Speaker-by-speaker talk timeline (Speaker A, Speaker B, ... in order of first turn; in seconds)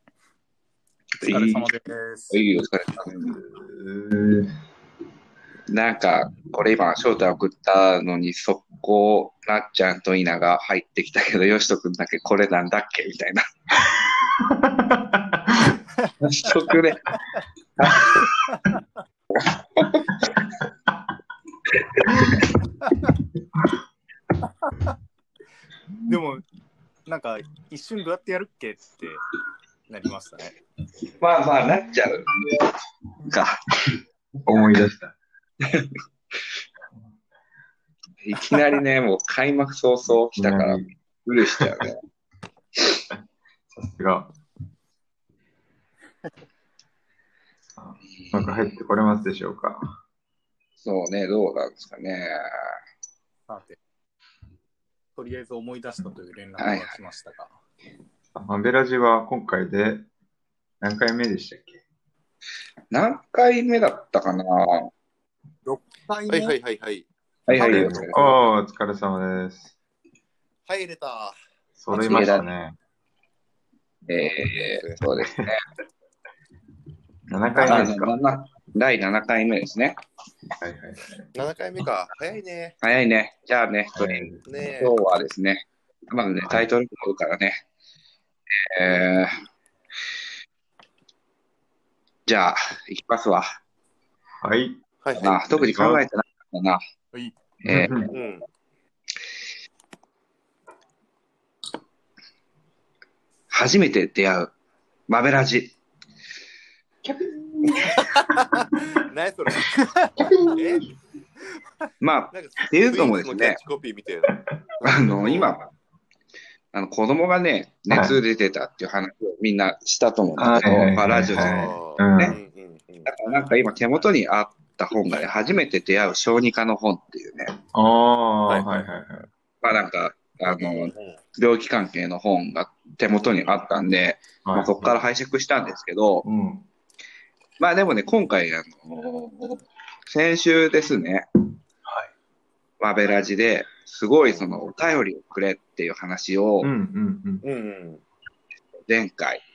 Speaker A: 1.2-2.4, 18.4-18.8, 26.1-26.4, 27.1-29.2, 29.9-30.5, 53.5-53.8, 55.1-57.5, 65.6-66.5, 77.5-77.8, 109.8-110.1, 130.4-131.2
Speaker B: 1.2-1.7, 2.3-3.4, 5.7-13.4, 16.2-17.1, 17.8-18.4, 19.3-20.4, 21.7-22.6, 31.2-33.9, 35.6-35.9, 38.2-42.0, 48.2-48.6, 50.8-52.7, 56.6-56.9, 62.9-64.9, 67.5-68.2, 71.9-72.4, 74.1-75.6, 77.6-80.0, 82.8-84.3, 84.8-87.6, 88.6-89.4, 92.3-93.6, 95.2-96.8, 97.6-98.1, 103.5-104.5, 105.1-105.7, 112.0-113.6, 114.8-115.7, 116.7-122.4, 123.0-127.5, 129.6-136.2, 137.6-141.2, 142.8-146.7, 148.9-149.4
Speaker C: 3.2-4.5, 14.3-15.7, 22.1-22.4, 34.4-35.1, 40.0-40.9, 41.5-41.9, 43.7-44.3, 47.8-50.0, 58.3-60.1, 60.8-61.8, 67.7-69.7, 71.8-72.7, 77.3-78.1, 80.6-81.3, 83.9-84.6, 86.4-86.7, 94.4-94.8, 95.5-96.0, 97.7-98.1, 107.0-108.2, 110.2-110.5, 117.9-118.2, 120.4-122.4, 127.7-129.3, 134.4-135.0, 136.2-136.7, 146.6-147.4
Speaker D: 66.3-68.5, 70.7-71.3, 74.6-75.0, 81.3-82.8, 84.4-85.0, 95.0-95.6, 98.1-98.4, 108.0-109.8, 110.4-110.9, 112.3-115.5, 121.3-123.1, 128.5-128.9, 144.2-144.5, 147.4-148.0